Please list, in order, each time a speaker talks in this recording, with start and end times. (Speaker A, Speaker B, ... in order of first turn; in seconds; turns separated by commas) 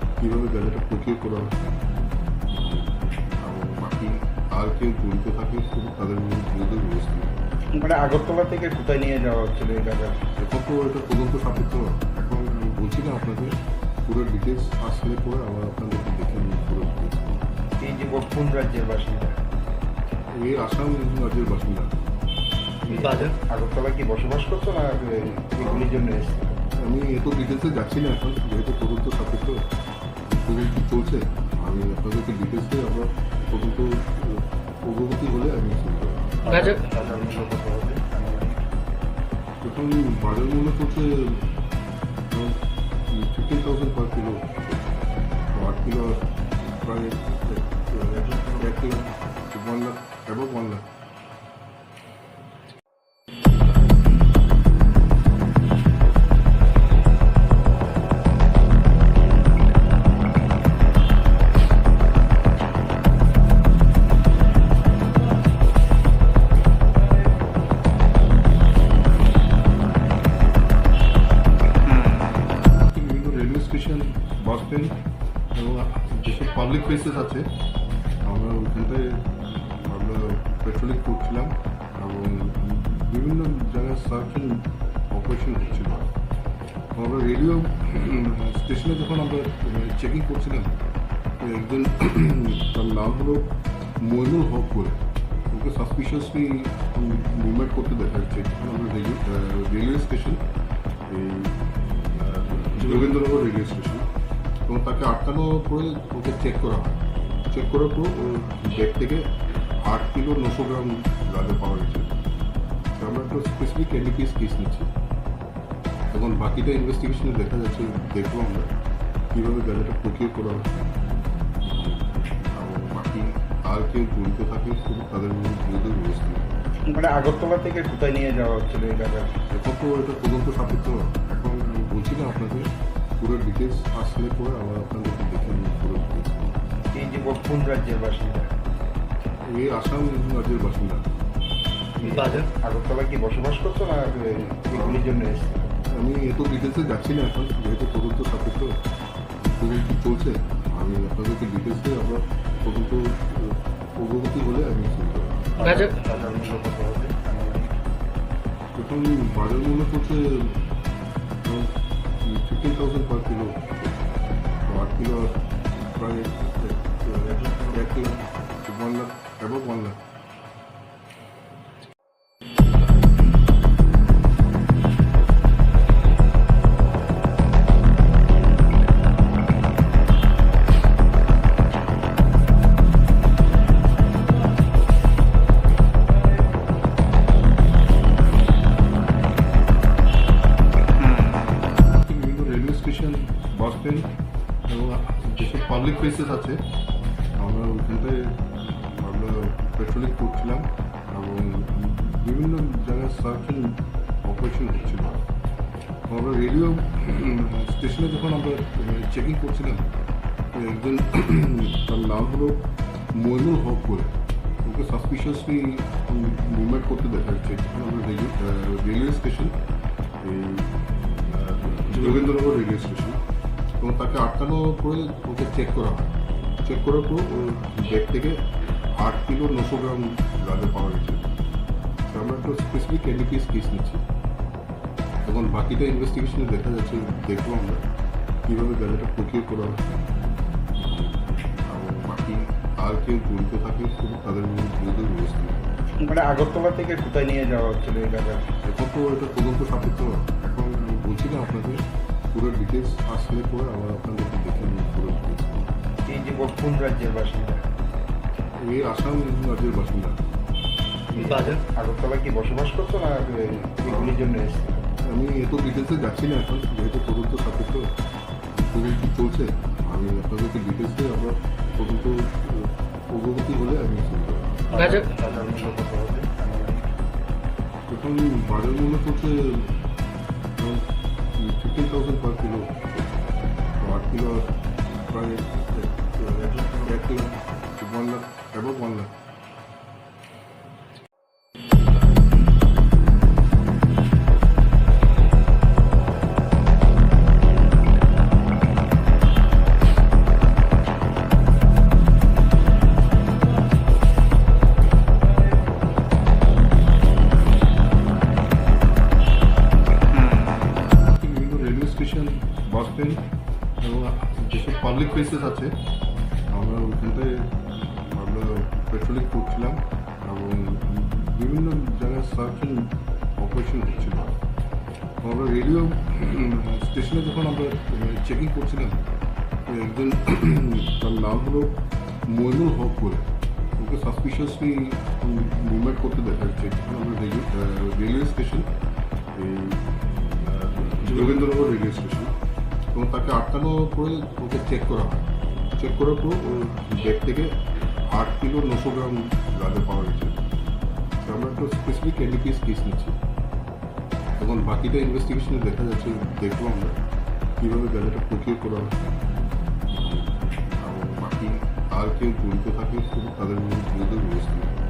Speaker A: 0.2-1.5, Speaker A: 3.4-7.3, Speaker B: 7.7-10.2, Speaker A: 10.3-17.1, Speaker B: 17.8-19.3, Speaker A: 20.3-21.9, Speaker B: 22.8-26.4, Speaker A: 26.8-29.7, Speaker A: 30.3-36.8, Speaker B: 36.8-38.0, Speaker A: 39.6-41.5, Speaker A: 42.3-44.7, Speaker A: 45.5-46.3, Speaker A: 46.8-50.9, Speaker A: 72.9-75.0, Speaker A: 75.5-77.5, Speaker A: 78.2-79.2, Speaker A: 79.8-86.1, Speaker A: 87.0-90.8, Speaker A: 91.4-100.4, Speaker A: 101.1-101.6, Speaker A: 102.2-104.1, Speaker A: 104.7-107.0, Speaker A: 107.5-112.1, Speaker A: 112.9-114.9, Speaker A: 116.1-118.7, Speaker A: 119.3-120.7, Speaker A: 122.5-126.5, Speaker B: 126.8-129.3, Speaker A: 129.5-136.3, Speaker B: 136.9-138.5, Speaker A: 139.5-141.1, Speaker B: 141.9-145.5, Speaker A: 145.9-148.8, Speaker A: 149.4-157.7, Speaker A: 158.8-160.7, Speaker A: 161.4-163.9, Speaker A: 164.7-165.4, Speaker A: 165.9-170.0, Speaker A: 192.0-194.1, Speaker A: 194.7-196.6, Speaker A: 197.4-198.4, Speaker A: 198.9-205.2, Speaker A: 206.1-209.9, Speaker A: 210.5-219.6, Speaker A: 220.2-220.7, Speaker A: 221.3-223.2, Speaker A: 223.8-226.1, Speaker A: 226.6-231.3, Speaker A: 232.1-234.0, Speaker A: 235.2-237.8, Speaker A: 238.5-239.8, Speaker A: 241.7-245.6, Speaker B: 246.0-248.5, Speaker A: 248.6-255.4, Speaker B: 256.1-257.6, Speaker A: 258.6-260.2, Speaker B: 261.1-264.7, Speaker A: 265.0-267.9, Speaker A: 268.6-275.1, Speaker B: 274.9-276.2, Speaker A: 276.2-276.8, Speaker A: 277.9-279.8, Speaker A: 280.6-283.1, Speaker A: 283.8-284.6, Speaker A: 285.1-289.1, Speaker A: 311.2-313.3, Speaker A: 313.8-315.8, Speaker A: 316.5-317.5, Speaker A: 318.1-324.3, Speaker A: 325.2-329.0, Speaker A: 329.7-338.7, Speaker A: 339.3-339.8, Speaker A: 340.4-342.3, Speaker A: 342.9-345.2, Speaker A: 345.8-350.4, Speaker A: 351.2-353.2, Speaker A: 354.4-356.9, Speaker A: 357.6-358.9, Speaker A: 360.8-364.7